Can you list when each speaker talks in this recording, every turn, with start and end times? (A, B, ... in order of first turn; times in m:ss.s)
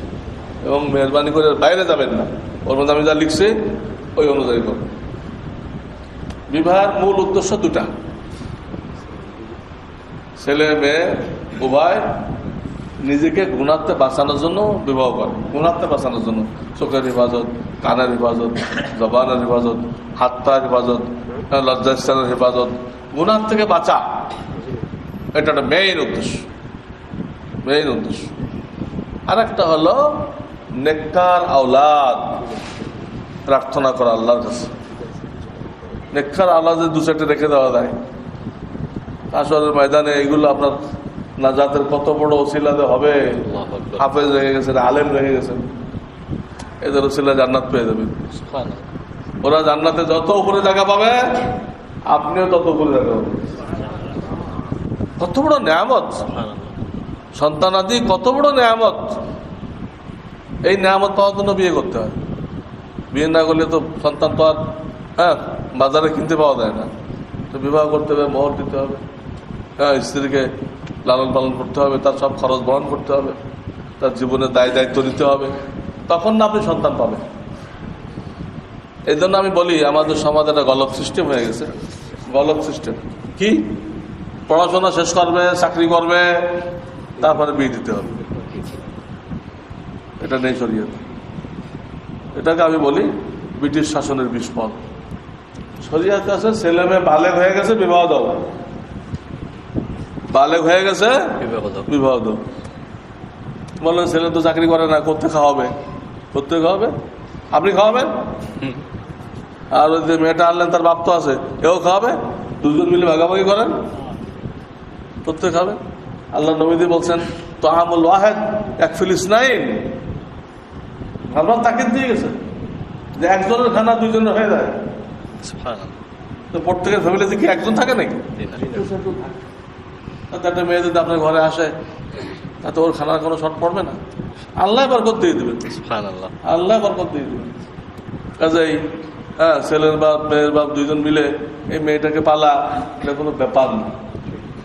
0:00.6-0:03.6 A
0:04.1-0:04.9 A
0:06.5-0:07.9 A
0:10.4-0:12.2 A
0:13.0-0:24.0 A
0:25.3-0:26.4 A
0:27.6-0:28.3 A
0:29.3-0:32.4 A
0:33.5-0:34.7 A
0:36.1-0:37.9 A
0:39.3-0:40.8 A
0:41.4-0:43.4 A
0:43.5-0:44.0 B
0:44.0-0:45.6 A
0:46.8-0:48.2 A
0:48.4-0:48.8 B
0:49.4-0:51.5 A
0:52.1-0:53.4 A
0:55.2-0:56.3 A
0:56.3-0:56.8 B
0:57.3-0:59.2 A
1:00.6-1:02.1 A
1:03.1-1:06.9 A
1:07.5-1:09.0 A
1:09.8-1:10.5 A
1:11.0-1:13.4 A
1:14.0-1:15.5 A
1:16.1-1:17.2 A
1:19.1-1:21.8 A
1:22.3-1:23.8 A
1:24.5-1:28.2 A
1:30.2-1:31.0 A
1:32.3-1:34.8 A
1:35.8-1:38.4 A
1:40.3-1:42.4 A
1:41.4-1:41.9 B
1:43.8-1:45.7 A
1:46.3-1:46.9 A
1:47.5-1:48.1 A
1:49.7-1:53.8 A
1:55.2-1:55.8 A
1:56.3-1:59.9 A
2:01.3-2:02.4 A
2:03.2-2:04.8 A
2:05.4-2:06.0 B
2:06.5-2:09.3 A
2:08.4-2:08.7 B
2:10.3-2:11.7 A
2:12.6-2:14.0 A
2:14.5-2:15.7 A
2:15.7-2:16.4 B
2:16.4-2:17.6 A
2:18.4-2:18.8 A
2:19.4-2:23.9 A